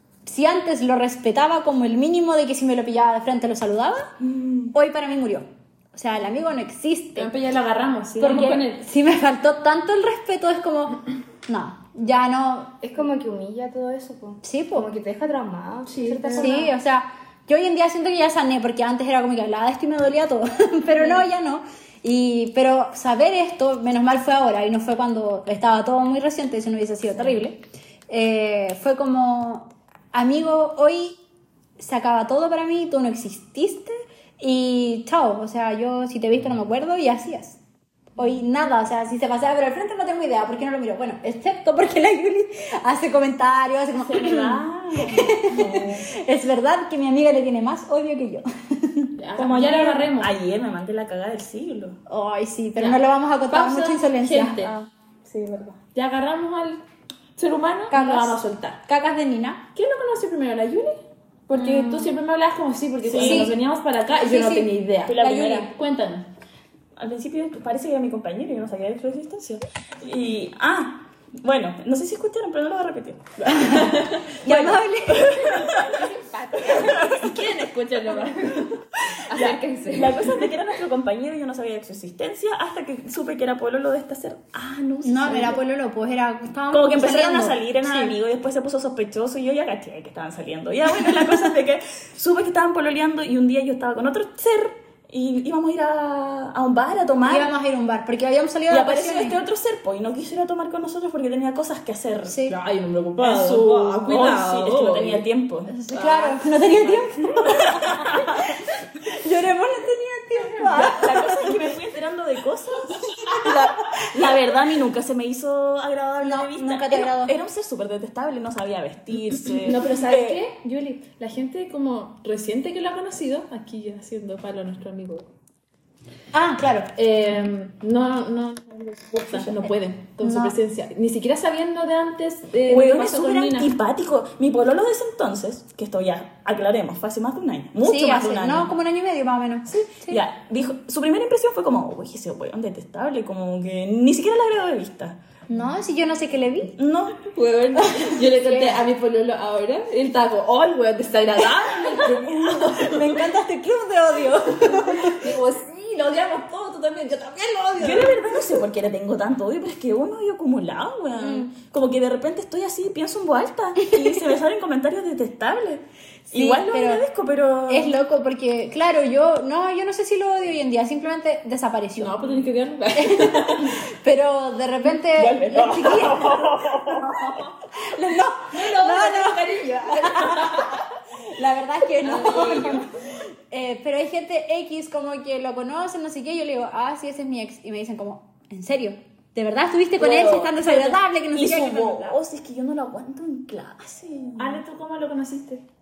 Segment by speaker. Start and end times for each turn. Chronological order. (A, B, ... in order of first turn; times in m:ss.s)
0:00.2-0:04.1 A
0:04.2-0:04.7 B
0:04.7-0:07.3 A
0:07.2-0:08.8 C
0:08.2-0:12.8 A
0:12.8-0:16.7 D
0:14.4-0:14.9 A
0:15.9-0:16.7 C
0:16.3-0:31.2 A
0:31.8-0:37.6 A
0:38.2-0:49.1 A
0:44.0-0:46.0 B
0:45.5-0:46.0 C
0:49.2-0:50.3 C
0:49.4-0:52.0 B
0:52.1-0:54.6 A
0:52.8-0:54.7 C
0:54.6-0:55.8 B
0:55.9-0:56.8 C
0:57.4-0:58.8 C
0:57.9-0:59.6 A
0:59.7-1:06.3 C
1:01.5-1:02.1 A
1:03.1-1:03.5 B
1:03.1-1:03.6 A
1:04.2-1:05.7 A
1:05.1-1:05.7 B
1:07.0-1:16.0 B
1:13.5-1:15.4 A
1:13.7-1:14.2 C
1:15.2-1:17.3 D
1:16.7-1:17.1 B
1:17.0-1:18.8 C
1:18.1-1:20.4 D
1:19.2-1:25.6 B
1:25.0-1:28.1 A
1:26.7-1:37.5 B
1:31.0-1:31.5 A
1:37.2-1:39.4 A
1:38.7-1:42.4 B
1:42.2-1:42.6 A
1:42.4-1:45.2 C
1:43.2-1:46.3 B
1:45.7-1:48.3 A
1:47.4-1:48.5 B
1:49.1-1:51.6 A
1:50.6-2:00.4 B
1:53.3-1:53.7 A
1:56.2-1:57.3 A
1:59.6-2:05.3 C
2:06.3-2:06.9 A
2:06.9-2:13.7 C
2:10.2-2:10.5 A
2:12.6-2:18.7 B
2:17.8-2:20.2 A
2:19.7-2:25.2 B
2:25.5-2:26.7 A
2:26.8-2:27.3 B
2:27.2-2:33.2 C
2:28.0-2:28.8 A
2:32.6-2:35.2 A
2:34.6-2:38.4 C
2:37.8-2:48.0 B
2:41.2-2:41.5 A
2:43.8-2:44.2 A
2:46.3-2:47.0 A
2:47.7-2:52.2 A
2:52.0-2:53.7 C
2:52.9-3:12.2 A
2:55.2-2:57.2 B
2:58.5-3:00.8 C
3:02.0-3:02.8 C
3:02.0-3:02.9 D
3:10.0-3:10.6 C
3:10.5-3:14.6 B
3:14.4-3:15.6 C